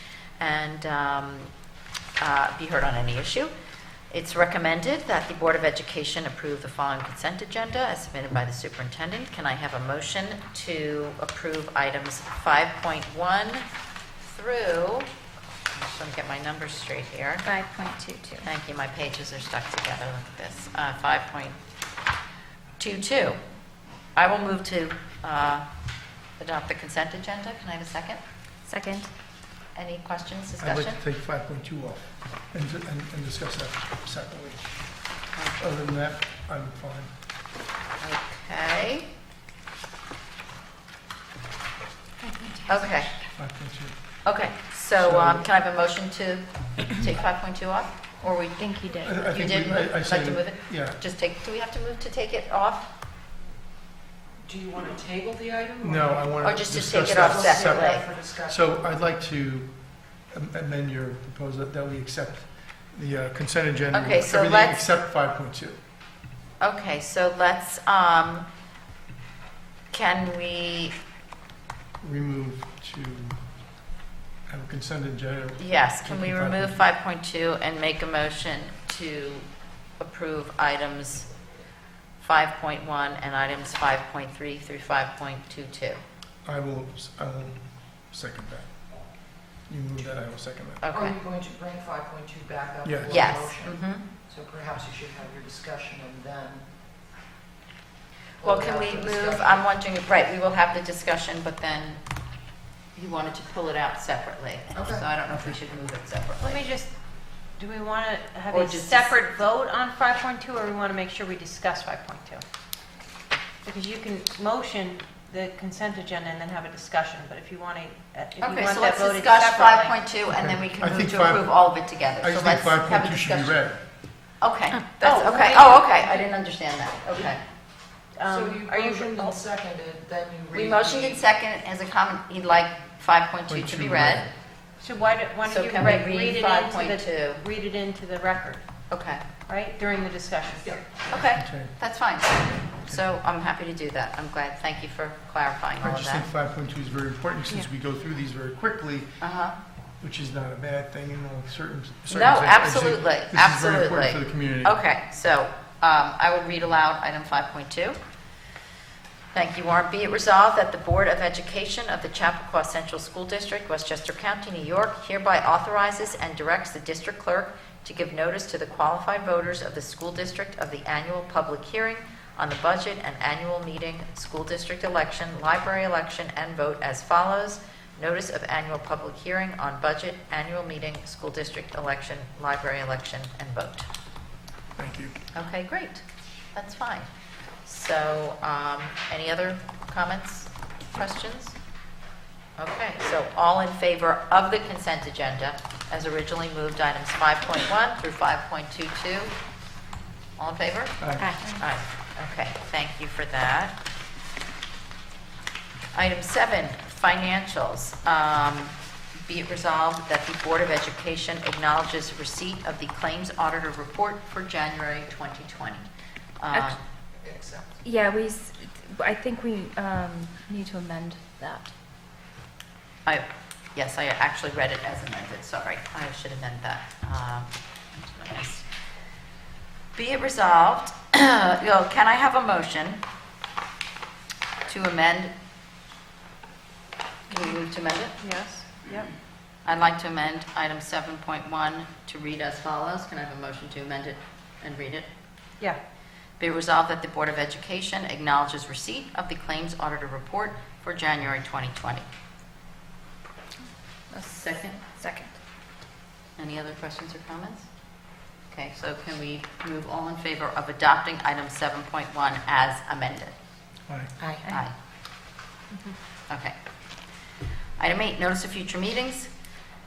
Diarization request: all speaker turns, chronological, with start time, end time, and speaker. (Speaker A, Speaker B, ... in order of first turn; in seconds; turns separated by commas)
Speaker A: 0.4-1.5, Speaker A: 2.2-3.5, Speaker A: 4.1-13.7, Speaker A: 14.2-15.1, Speaker A: 15.7-17.5, Speaker B: 17.4-18.5, Speaker A: 18.4-21.6, Speaker A: 22.8-23.4, Speaker A: 24.2-25.6, Speaker A: 26.4-28.2, Speaker B: 28.7-29.1, Speaker A: 29.8-31.0, Speaker C: 30.6-37.1, Speaker A: 38.0-39.1, Speaker B: 42.2-43.0, Speaker A: 42.7-43.1, Speaker C: 43.4-44.2, Speaker A: 44.2-52.9, Speaker C: 45.0-45.5, Speaker B: 48.6-49.3, Speaker C: 49.0-51.0, Speaker D: 54.4-56.4, Speaker C: 55.8-65.8, Speaker A: 56.4-58.0, Speaker D: 57.0-58.6, Speaker A: 63.9-64.9, Speaker A: 66.6-68.5, Speaker A: 69.9-71.0, Speaker C: 72.0-73.6, Speaker C: 74.5-76.8, Speaker A: 75.6-79.5, Speaker A: 80.0-81.3, Speaker A: 82.2-86.0, Speaker C: 86.5-90.8, Speaker A: 90.8-91.2, Speaker D: 90.9-96.7, Speaker C: 92.8-93.3, Speaker A: 93.1-94.0, Speaker D: 98.4-99.6, Speaker A: 98.4-102.0, Speaker A: 102.9-106.6, Speaker D: 104.7-105.1, Speaker E: 106.4-107.0, Speaker E: 107.5-112.4, Speaker A: 108.5-109.2, Speaker E: 113.6-120.0, Speaker A: 118.4-123.6, Speaker C: 120.3-123.8, Speaker A: 124.4-127.4, Speaker E: 125.0-126.3, Speaker E: 128.2-129.4, Speaker D: 128.2-131.2, Speaker A: 130.5-134.3, Speaker C: 133.5-134.3, Speaker E: 134.8-138.7, Speaker A: 135.5-137.4, Speaker A: 138.9-139.2, Speaker E: 139.5-140.9, Speaker A: 141.1-146.3, Speaker C: 141.1-141.8, Speaker C: 145.8-149.2, Speaker A: 149.2-149.6, Speaker C: 150.0-154.8, Speaker A: 152.1-158.0, Speaker A: 159.3-183.9, Speaker C: 184.8-185.2, Speaker A: 185.3-187.1, Speaker A: 187.7-191.6, Speaker A: 192.6-199.3, Speaker A: 200.4-203.8, Speaker C: 201.0-201.3, Speaker B: 201.2-201.6, Speaker A: 205.9-215.9, Speaker A: 216.4-216.8, Speaker D: 217.2-217.8, Speaker B: 217.8-221.7, Speaker A: 223.1-228.7, Speaker A: 229.9-233.0, Speaker A: 234.7-235.3, Speaker A: 237.3-238.2, Speaker E: 238.2-239.1, Speaker A: 239.7-245.1, Speaker A: 246.4-252.1, Speaker A: 254.1-254.9, Speaker B: 255.0-255.3, Speaker A: 256.4-257.7, Speaker A: 258.5-263.4, Speaker C: 263.9-264.1, Speaker D: 264.2-264.5, Speaker A: 264.5-264.7, Speaker A: 266.3-266.6, Speaker A: 267.8-269.3